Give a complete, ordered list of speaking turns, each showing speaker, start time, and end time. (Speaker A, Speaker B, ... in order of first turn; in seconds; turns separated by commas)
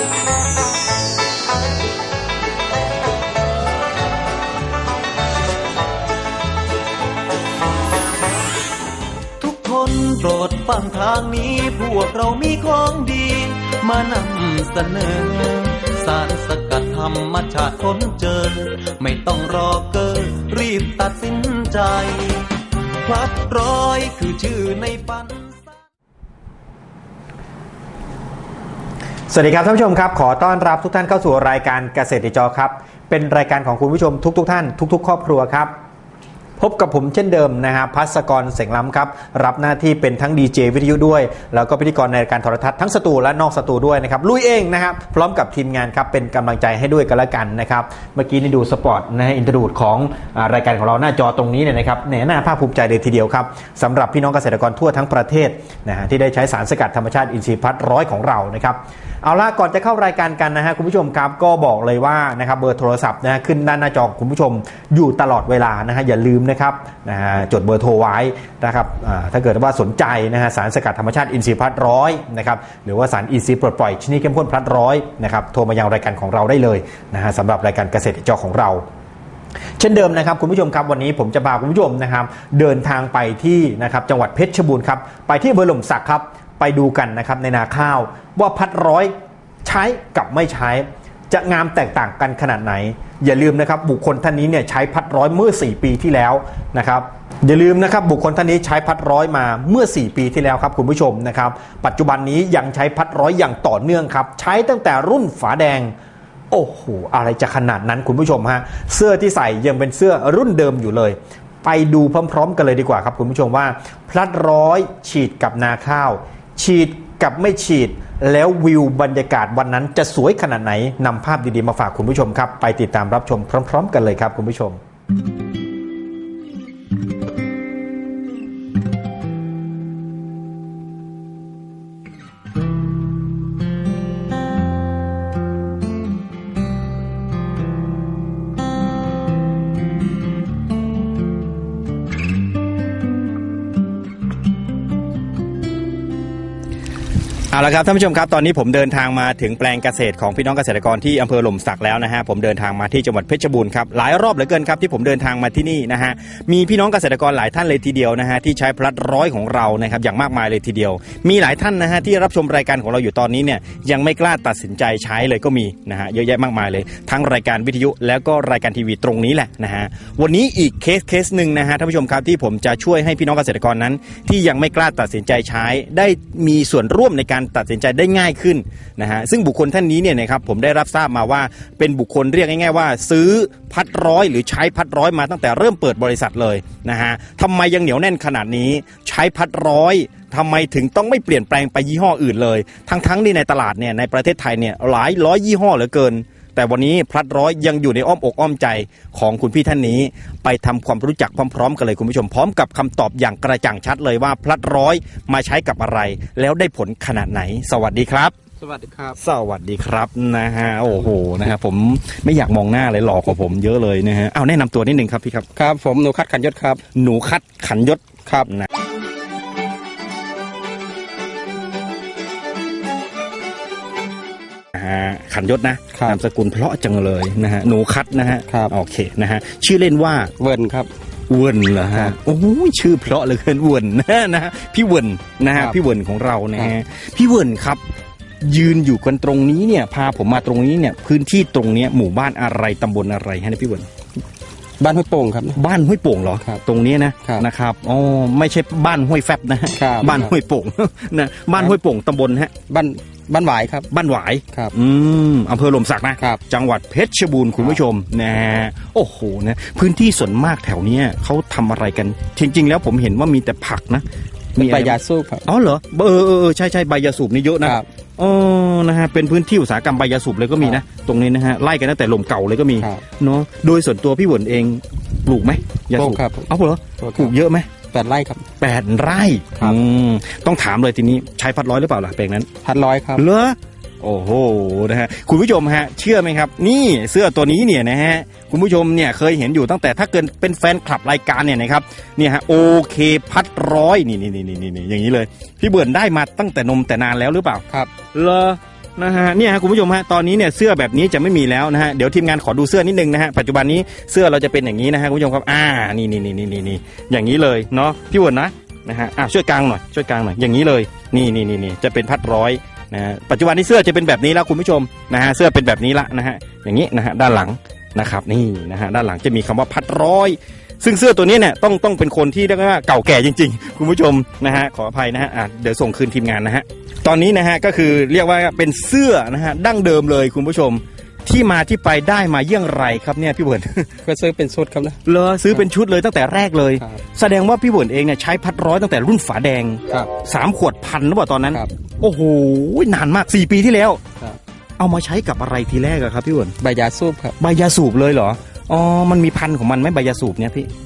Speaker A: 9.4-22.5, Speaker A: 23.0-25.8, Speaker B: 29.3-35.7, Speaker B: 36.6-78.8, Speaker B: 79.8-105.9, Speaker B: 106.5-124.8, Speaker B: 147.5-208.3, Speaker C: 208.6-209.2, Speaker B: 209.2-215.4, Speaker C: 215.6-216.8, Speaker B: 216.9-218.7, Speaker B: 224.7-230.3, Speaker C: 225.9-226.2, Speaker C: 228.5-228.7, Speaker C: 230.4-230.9, Speaker B: 231.3-237.8, Speaker B: 238.4-243.9, Speaker C: 244.8-245.6, Speaker B: 245.5-252.5, Speaker C: 249.8-250.3, Speaker C: 252.7-253.9, Speaker B: 253.9-277.7, Speaker C: 264.6-265.4, Speaker C: 267.6-267.9, Speaker C: 270.6-270.8, Speaker C: 272.8-273.0, Speaker C: 275.9-276.5, Speaker C: 277.0-277.3, Speaker C: 277.9-278.4, Speaker B: 278.6-282.5, Speaker C: 282.6-283.2, Speaker B: 283.2-297.6, Speaker B: 298.1-333.9, Speaker C: 334.0-335.7, Speaker B: 335.1-344.0, Speaker B: 344.8-346.5, Speaker C: 346.6-347.4, Speaker B: 347.4-350.7